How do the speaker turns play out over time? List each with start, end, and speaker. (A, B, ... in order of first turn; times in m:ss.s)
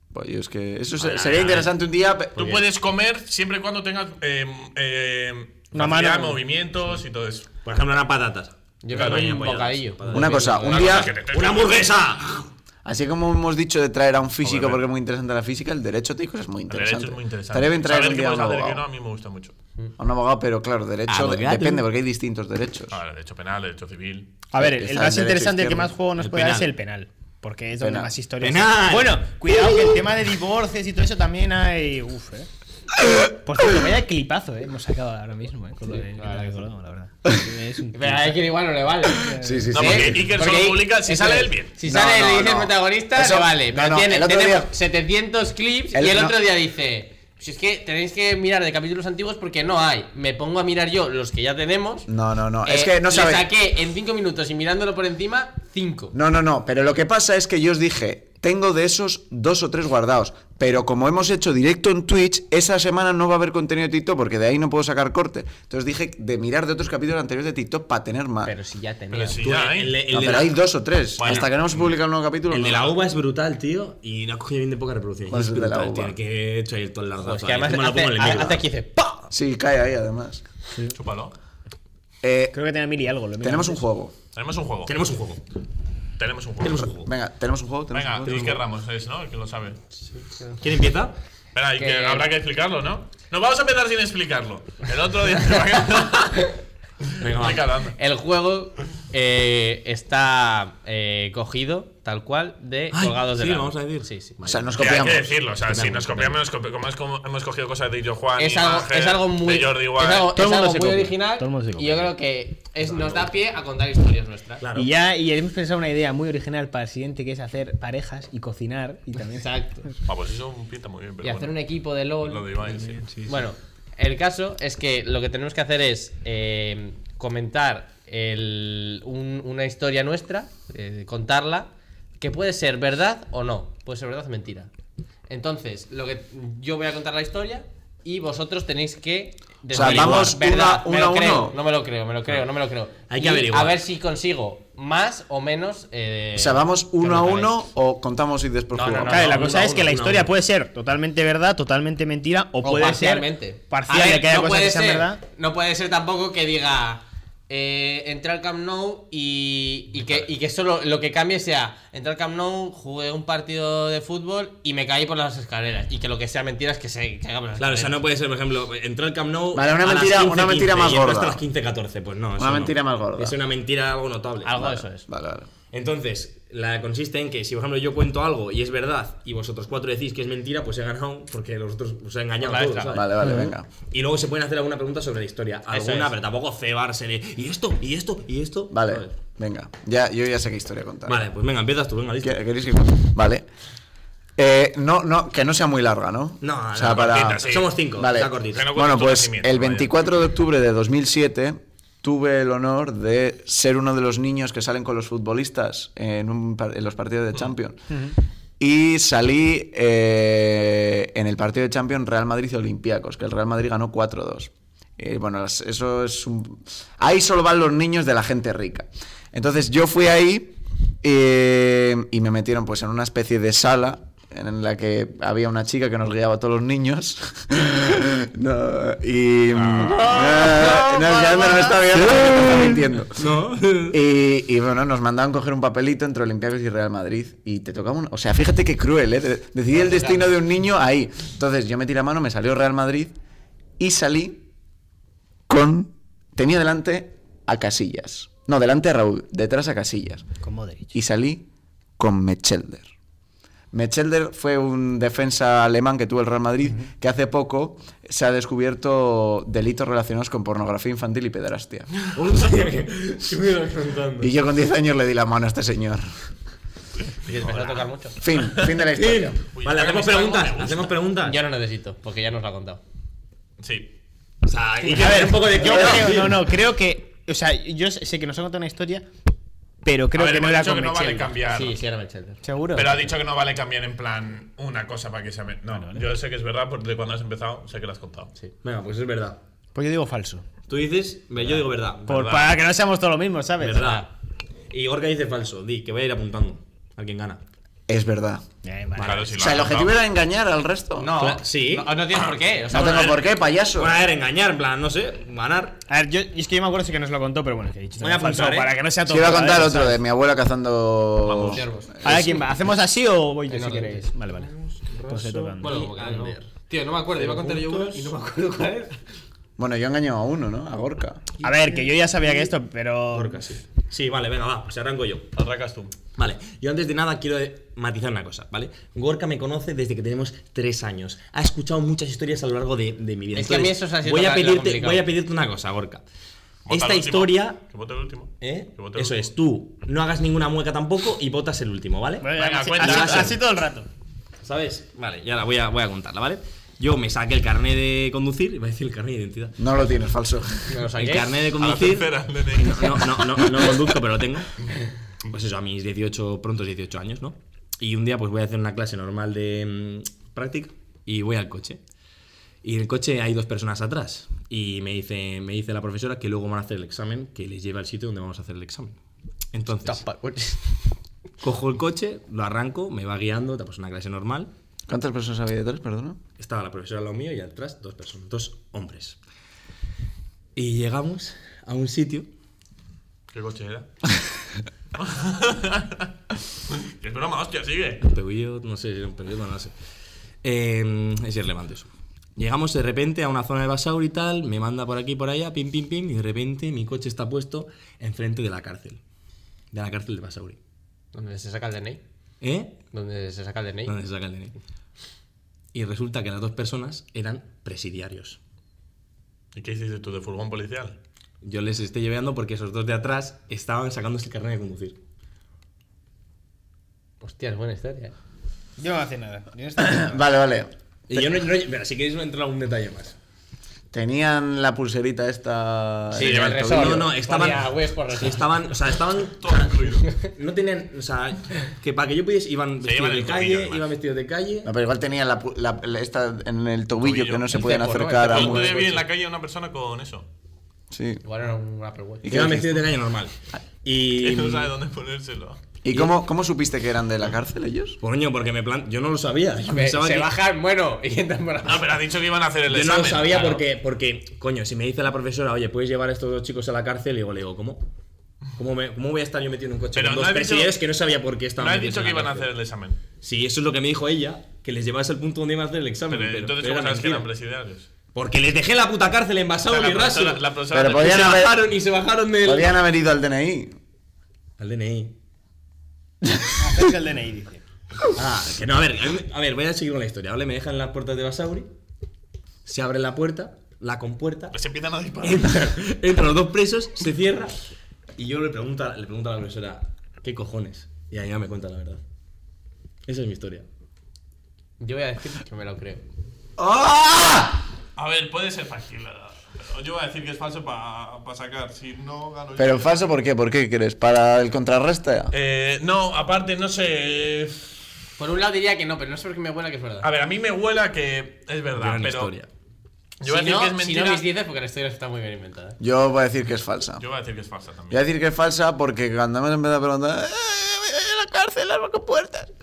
0:00.1-0:02.6 A
0:01.0-0:01.6 B
0:02.4-0:07.5 C
0:05.7-0:06.4 D
0:07.6-0:12.5 E
0:08.8-0:11.0 B
0:08.9-0:09.4 C
0:10.1-0:11.1 A
0:10.6-0:11.9 C
0:12.8-0:18.8 A
0:14.4-0:14.8 C
0:16.7-0:19.6 C
0:20.0-0:23.0 A
0:21.1-0:21.8 E
0:22.9-0:24.4 C
0:24.5-0:32.5 D
0:24.6-0:25.9 A
0:26.2-0:26.7 E
0:27.8-0:28.1 A
0:28.4-0:29.2 E
0:33.2-0:38.4 D
0:35.9-0:36.6 B
0:37.9-0:52.1 B
0:39.1-0:39.7 D
0:39.3-0:40.4 A
0:39.7-0:41.7 C
0:41.8-0:44.7 A
0:45.9-0:46.4 A
0:52.1-0:53.5 A
0:52.6-0:56.2 B
0:56.1-1:08.5 A
1:08.4-1:09.5 B
1:09.1-1:10.1 C
1:09.4-1:10.6 E
1:10.1-1:12.9 A
1:11.2-1:11.9 C
1:12.5-1:18.6 E
1:15.3-1:16.2 A
1:17.2-1:19.3 B
1:19.3-1:20.4 A
1:20.9-1:21.3 C
1:22.2-1:22.6 A
1:22.5-1:23.8 D
1:23.4-1:24.2 A
1:24.3-1:24.9 C
1:24.9-1:25.4 E
1:26.2-1:26.9 C
1:26.6-1:27.1 E
1:27.0-1:28.6 A
1:27.9-1:29.8 C
1:30.1-1:30.6 B
1:30.6-1:31.1 E
1:31.5-1:36.5 C
1:31.8-1:32.3 B
1:37.0-1:38.0 C
1:37.2-1:37.7 E
1:38.0-1:44.7 B
1:42.9-1:44.1 E
1:44.4-1:45.3 A
1:44.8-1:50.4 C
1:45.7-1:46.4 E
1:48.4-1:54.6 B
1:50.3-1:52.2 D
1:52.9-1:53.3 E
1:54.6-1:54.9 E
1:54.8-1:59.9 D
1:59.4-1:59.9 B
2:00.1-2:01.6 C
2:01.2-2:02.5 B
2:02.2-2:03.1 C
2:02.8-2:03.4 D
2:03.3-2:14.7 B
2:15.3-2:27.5 B
2:19.7-2:21.6 A
2:19.7-2:20.3 E
2:23.1-2:23.8 E
2:26.4-2:29.3 A
2:28.7-2:30.2 B
2:29.0-2:35.2 D
2:29.4-2:30.3 E
2:32.6-2:48.0 B
2:47.6-2:54.8 E
2:49.5-2:51.4 A
2:52.4-2:53.4 A
2:54.4-2:55.1 B
2:54.6-2:55.5 A
2:55.7-3:09.2 E
3:02.4-3:02.9 B
3:02.5-3:02.9 C
3:02.9-3:03.7 A
3:03.2-3:03.5 D
3:05.7-3:06.1 B
3:08.7-3:11.2 A
3:11.1-3:12.4 E
3:12.2-3:13.5 A
3:14.4-3:27.8 A
3:16.4-3:18.7 E
3:16.9-3:17.8 C
3:18.4-3:19.9 C
3:27.9-3:28.2 D
3:28.6-3:53.3 A
3:49.5-3:50.3 C
3:50.0-3:51.7 B
3:52.0-3:54.0 E
3:53.9-4:03.1 A
3:59.8-4:00.3 B
4:03.8-4:04.4 A
4:05.5-4:10.2 A
4:10.4-4:10.9 D
4:10.9-4:11.4 A
4:12.0-4:12.9 A
4:13.7-4:21.9 A
4:22.1-4:24.3 E
4:24.2-4:26.1 A
4:27.1-4:27.9 C
4:27.3-4:28.2 B
4:28.2-4:29.4 A
4:28.8-4:31.4 E
4:29.5-4:30.9 C
4:31.2-4:32.8 B
4:33.6-4:33.9 C
4:34.4-4:36.5 E
4:34.8-4:39.0 D
4:39.8-4:41.3 D
4:40.1-4:41.8 C
4:41.5-4:42.4 B
4:42.4-4:43.0 D
4:42.7-4:48.3 C
4:45.7-4:46.0 D
4:48.6-4:49.4 E
4:49.8-4:50.5 D
4:50.7-4:52.1 E
4:52.1-4:52.6 C
4:52.1-4:54.0 D
4:53.6-4:54.1 E
4:53.8-4:54.1 B
4:54.7-4:57.4 E
4:57.9-4:58.4 A
4:58.6-4:59.4 D
4:59.0-4:59.3 E
4:59.0-5:00.0 C
4:59.4-5:01.1 A
5:01.0-5:03.2 B
5:01.2-5:02.0 E
5:02.7-5:04.0 A
5:02.8-5:03.1 E
5:03.7-5:05.8 E
5:05.9-5:10.0 D
5:08.0-5:08.8 E
5:09.1-5:12.4 A
5:11.3-5:11.7 C
5:11.5-5:11.9 B
5:12.0-5:14.5 D
5:13.5-5:14.0 B
5:13.5-5:16.4 E
5:15.1-5:15.8 D
5:15.6-5:18.9 B
5:17.2-5:18.6 E
5:19.6-5:21.3 A
5:21.4-5:22.5 E
5:21.4-5:23.5 D
5:23.1-5:25.3 E
5:25.4-5:26.0 C
5:26.1-5:36.0 E
5:33.3-5:35.0 B
5:36.7-5:39.3 C
5:36.7-5:37.6 E
5:38.4-5:43.4 E
5:42.2-5:43.9 D
5:42.3-5:43.4 C
5:44.4-5:49.6 E
5:49.6-5:50.8 A
5:50.7-5:51.3 B
5:50.9-5:54.5 E
5:51.5-5:53.8 C
5:55.3-6:01.8 E
6:02.6-6:09.0 E
6:09.5-6:10.0 E
6:09.8-6:10.6 B
6:11.4-6:14.5 E
6:14.9-6:16.2 A
6:16.4-6:19.2 E
6:20.6-6:22.3 E
6:23.3-6:23.9 C
6:25.0-6:26.1 C
6:26.7-6:28.0 C
6:28.0-6:29.7 E
6:30.4-6:39.0 E
6:39.7-6:40.6 E
6:41.1-6:42.0 B
6:42.4-6:42.8 E
6:42.9-6:44.0 B
6:43.9-6:44.6 E
6:45.7-6:48.4 E
6:49.6-6:51.0 C
6:51.4-6:55.0 E
6:57.2-6:58.2 B
6:58.8-7:00.2 D
6:59.8-7:01.2 A
7:01.1-7:03.2 E
7:03.9-7:06.6 A
7:06.2-7:08.4 B
7:06.2-7:06.7 C
7:06.2-7:14.7 E
7:09.2-7:10.2 C
7:12.8-7:13.9 C
7:14.6-7:18.9 A
7:17.0-7:17.6 C
7:17.5-7:19.0 B
7:18.2-7:20.3 C
7:20.9-7:21.2 A
7:21.2-7:22.3 B
7:22.3-7:22.7 A
7:22.3-7:24.7 E
7:24.2-7:25.6 C
7:25.8-7:28.0 A
7:25.9-7:26.2 E
7:28.0-7:30.3 E
7:29.7-7:32.0 B
7:31.6-7:33.6 C
7:32.7-7:37.9 E
7:38.6-7:42.5 E
7:39.9-7:40.8 C
7:41.6-7:43.0 C
7:43.2-7:47.3 E
7:46.1-7:47.9 C
7:48.2-7:52.8 E
7:49.7-7:51.4 C
7:50.7-7:51.6 A
7:52.4-7:53.8 A
7:54.6-7:55.2 E
7:56.6-7:57.6 D
7:58.1-8:01.7 E
8:02.6-8:04.6 E
8:04.5-8:05.7 C
8:05.2-8:07.6 E
8:08.2-8:12.0 E
8:13.1-8:13.7 E
8:14.8-8:16.0 B
8:16.6-8:17.6 A
8:18.0-8:23.0 C
8:22.6-8:25.3 A
8:25.3-8:27.8 C
8:28.2-8:30.1 B
8:30.0-8:32.3 C
8:31.8-8:32.5 E
8:33.2-8:34.3 C
8:33.2-8:35.8 B
8:35.8-8:37.0 A
8:37.0-8:38.0 C
8:37.9-8:42.5 A